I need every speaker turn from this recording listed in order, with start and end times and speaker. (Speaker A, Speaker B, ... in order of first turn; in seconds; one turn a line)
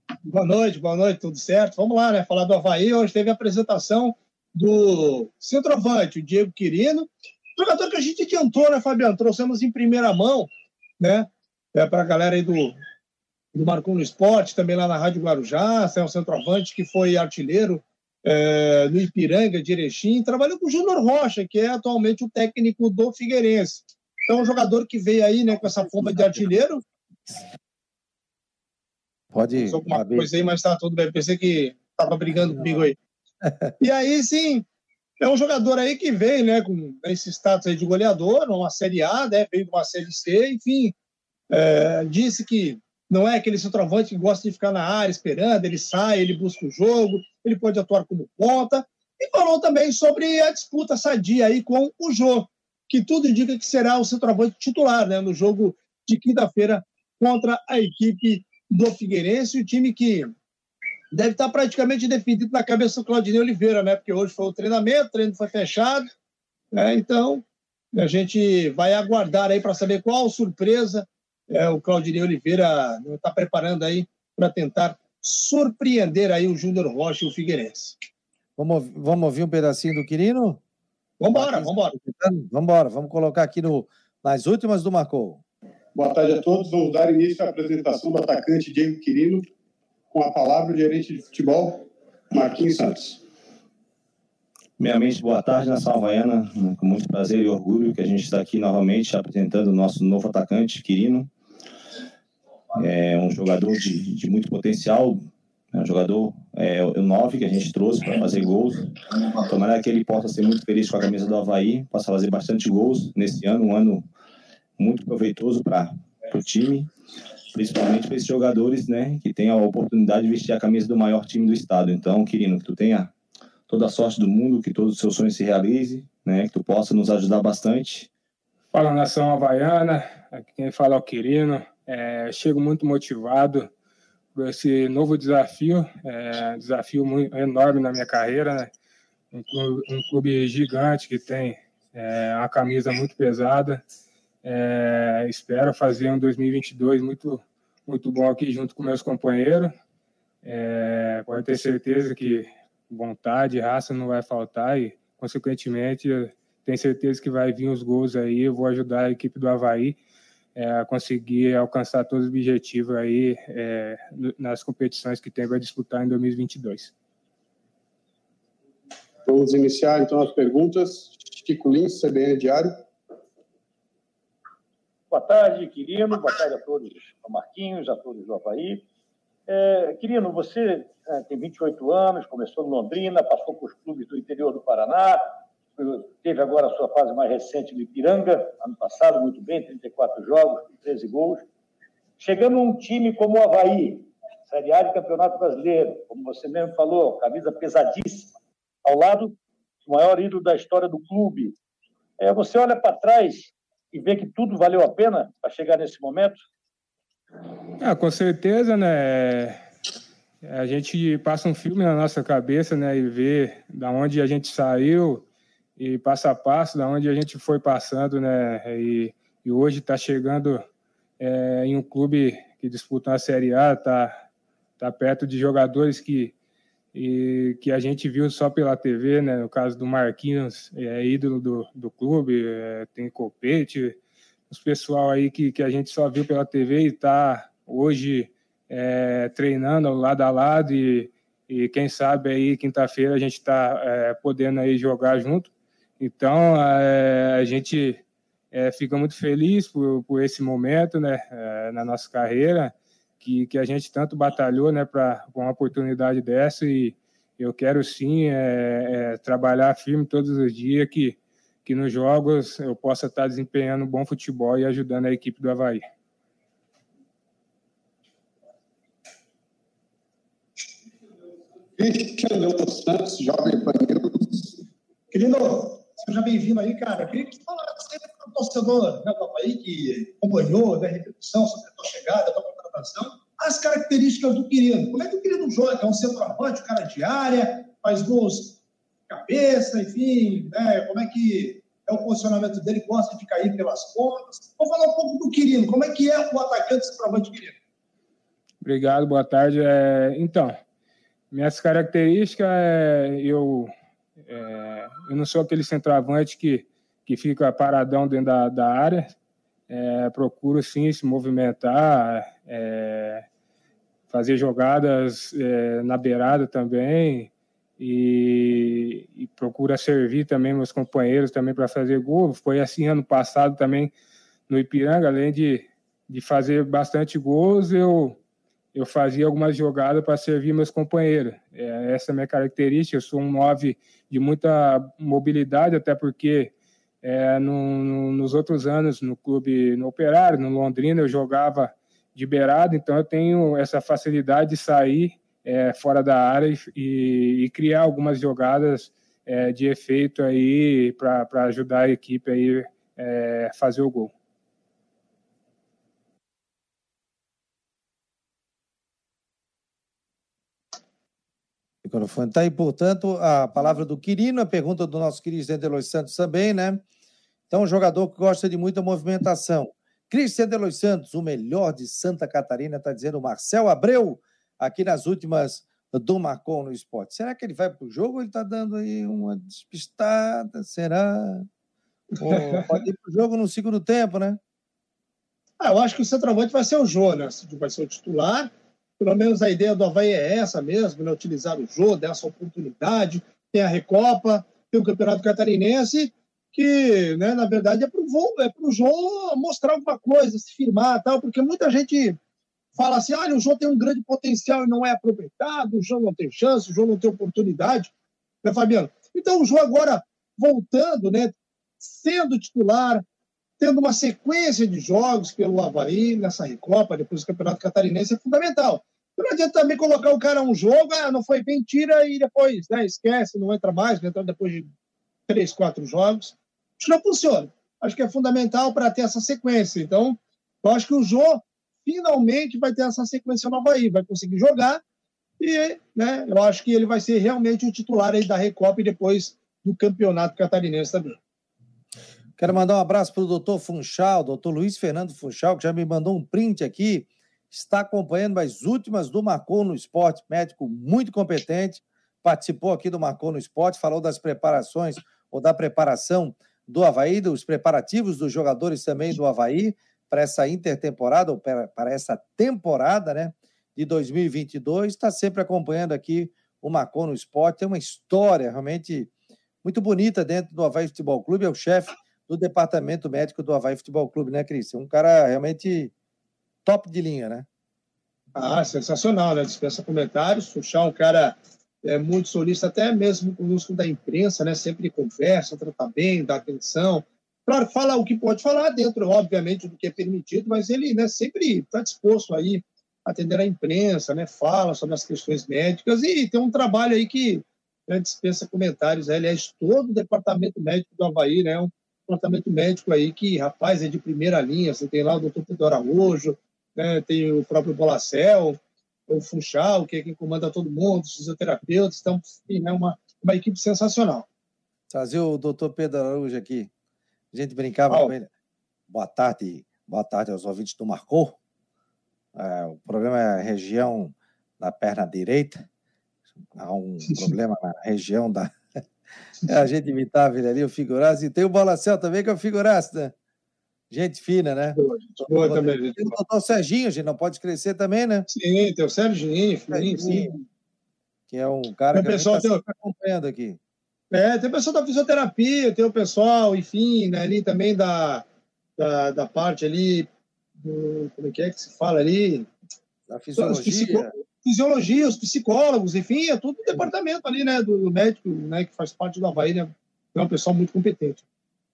Speaker A: 0.3-10.5
Speaker A: 11.0-12.8
Speaker A: 13.5-26.8
Speaker B: 26.0-26.4
Speaker B: 29.3-30.3
Speaker A: 29.6-33.0
Speaker B: 32.5-32.9
Speaker B: 33.4-33.7
Speaker A: 33.8-34.6
Speaker A: 35.2-40.9
Speaker A: 41.5-60.3
Speaker A: 61.1-66.1
Speaker A: 66.7-78.0
Speaker B: 78.6-80.6
Speaker A: 81.2-82.0
Speaker B: 81.3-85.4
Speaker C: 86.0-89.5
Speaker C: 90.1-93.2
Speaker D: 94.8-101.3
Speaker D: 102.8-114.1
Speaker D: 114.8-116.9
Speaker D: 117.5-123.1
Speaker D: 123.7-128.1
Speaker E: 128.7-133.7
Speaker E: 134.3-138.7
Speaker E: 139.3-143.8
Speaker E: 144.4-149.7
Speaker E: 150.4-160.0
Speaker E: 160.6-166.9
Speaker C: 169.3-172.8
Speaker F: 175.1-178.9
Speaker F: 179.5-191.5
Speaker F: 192.2-201.6
Speaker F: 202.2-206.4
Speaker E: 207.8-209.6
Speaker E: 210.4-215.2
Speaker E: 215.8-220.6
Speaker E: 221.2-224.1
Speaker E: 224.8-226.3
Speaker E: 226.9-234.0
Speaker E: 234.5-265.8
Speaker C: 271.8-274.5
Speaker A: 275.1-288.6
Speaker A: 289.1-297.6
Speaker E: 298.6-300.6
Speaker E: 301.3-303.7
Speaker E: 304.3-309.1
Speaker E: 309.7-313.3
Speaker E: 314.1-323.9
Speaker E: 324.5-328.2
Speaker E: 328.8-336.5
Speaker E: 337.0-354.1
Speaker B: 361.8-366.8
Speaker B: 367.5-381.5
Speaker A: 382.2-382.7
Speaker B: 382.2-384.4
Speaker A: 385.6-402.2
Speaker A: 402.8-407.9
Speaker A: 408.4-413.0
Speaker A: 413.6-424.7
Speaker A: 425.3-434.8
Speaker A: 435.4-441.2
Speaker B: 442.4-469.1
Speaker B: 469.6-475.9
Speaker B: 476.6-477.5
Speaker A: 478.4-508.6
Speaker A: 509.1-514.3
Speaker B: 514.9-516.7
Speaker B: 517.3-518.3
Speaker B: 518.9-521.4
Speaker B: 522.4-525.6
Speaker B: 526.5-528.8
Speaker B: 529.5-533.1
Speaker B: 533.9-538.3
Speaker A: 534.8-536.2
Speaker A: 538.3-540.4
Speaker B: 539.7-540.3
Speaker B: 541.3-543.6
Speaker A: 541.9-542.6
Speaker A: 544.1-548.2
Speaker A: 548.8-552.5
Speaker B: 553.1-554.1
Speaker A: 553.4-561.2